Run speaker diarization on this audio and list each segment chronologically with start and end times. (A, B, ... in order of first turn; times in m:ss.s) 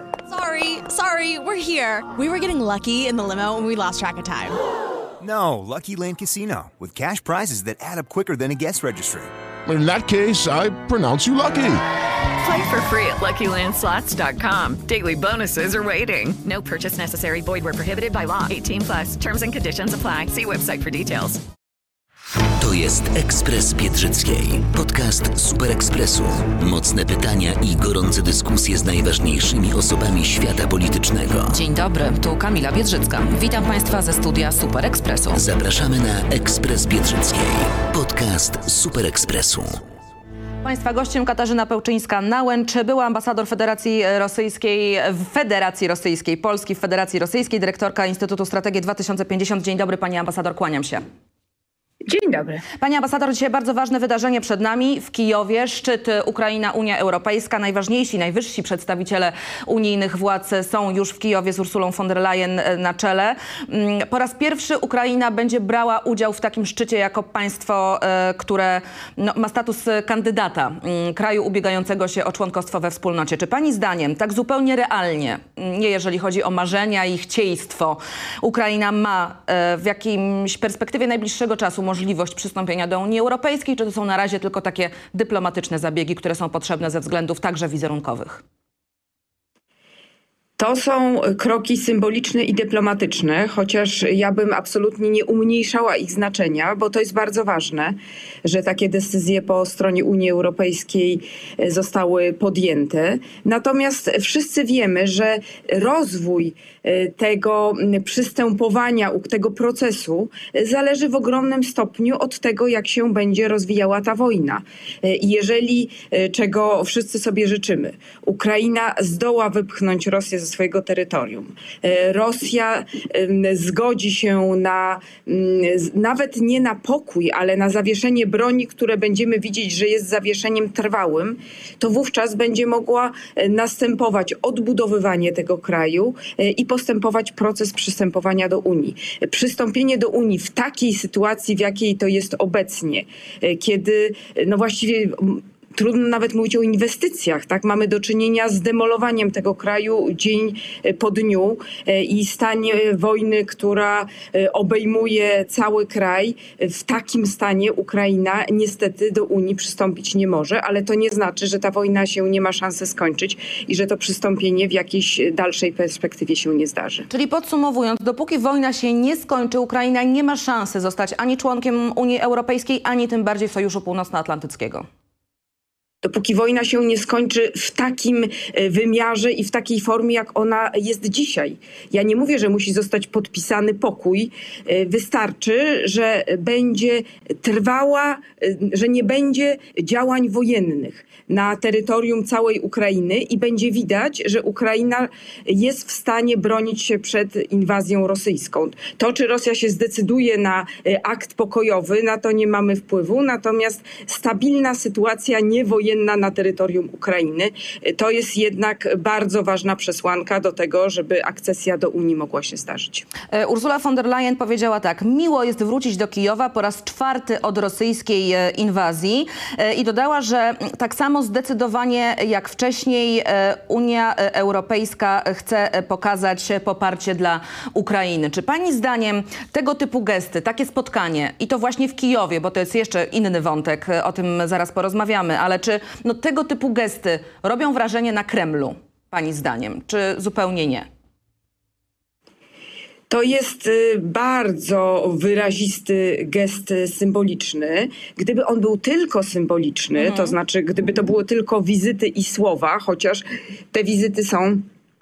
0:00.3-0:04.6 A
0:05.2-0:09.3 B
0:09.7-0:11.8 C
0:12.4-0:21.4 D
0:22.6-0:31.5 E
0:31.5-0:35.4 F
0:35.4-0:39.9 E
0:40.6-0:51.0 F
0:52.0-0:52.6 G
0:52.8-1:28.4 F
1:30.6-2:47.1 G
2:47.1-2:54.8 F
2:56.0-3:33.0 G
3:33.3-4:00.9 F
4:03.1-4:14.7 G
4:10.0-4:10.3 F